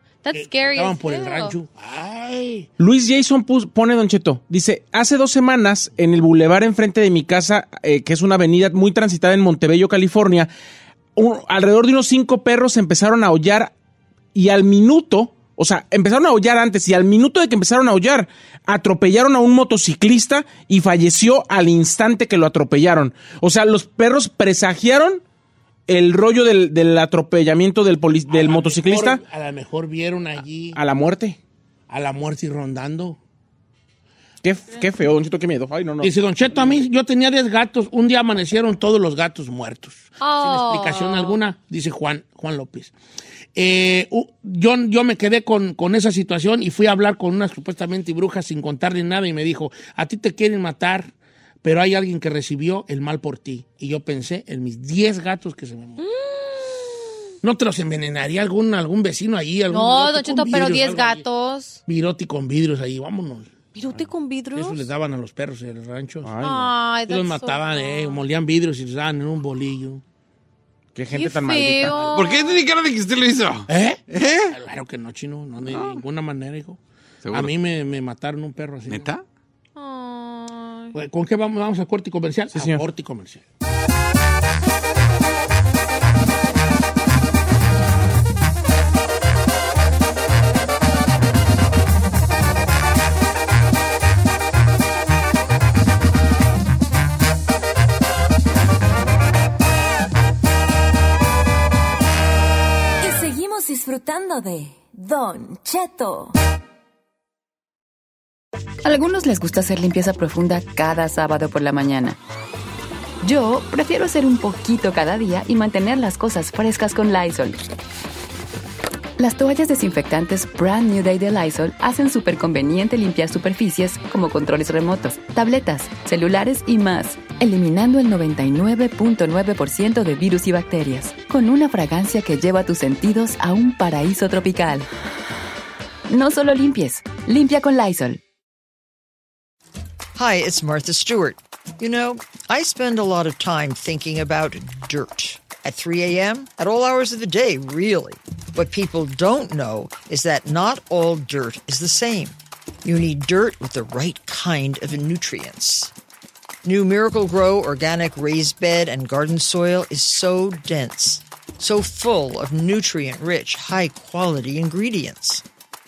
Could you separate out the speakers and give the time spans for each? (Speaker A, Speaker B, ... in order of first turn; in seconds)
Speaker A: 0.2-1.5, 40.2-41.4, 56.0-56.9, 59.7-61.8, 63.7-64.8, 66.4-68.2, 71.1-72.6, 79.8-80.9
Speaker B: 0.3-2.7, 28.3-30.8, 31.9-33.2, 36.0-42.9, 43.5-51.1, 51.6-56.0, 57.4-61.2, 61.9-63.5, 64.5-66.3, 67.1-70.0, 73.7-76.8, 77.3-79.1, 80.9-83.4
Speaker C: 2.8-10.5, 11.2-13.7, 14.3-25.2, 25.9-29.2, 30.7-31.4, 34.4-36.8, 66.2-66.7, 70.9-72.2, 82.5-82.8
Speaker D: 72.1-74.5, 75.7-76.0, 77.2-77.5, 78.9-79.2
Speaker E: 103.0-106.3
Speaker F: 108.8-112.2, 113.2-117.7, 119.2-134.8, 136.1-138.2
Speaker G: 140.1-155.9, 156.6-165.4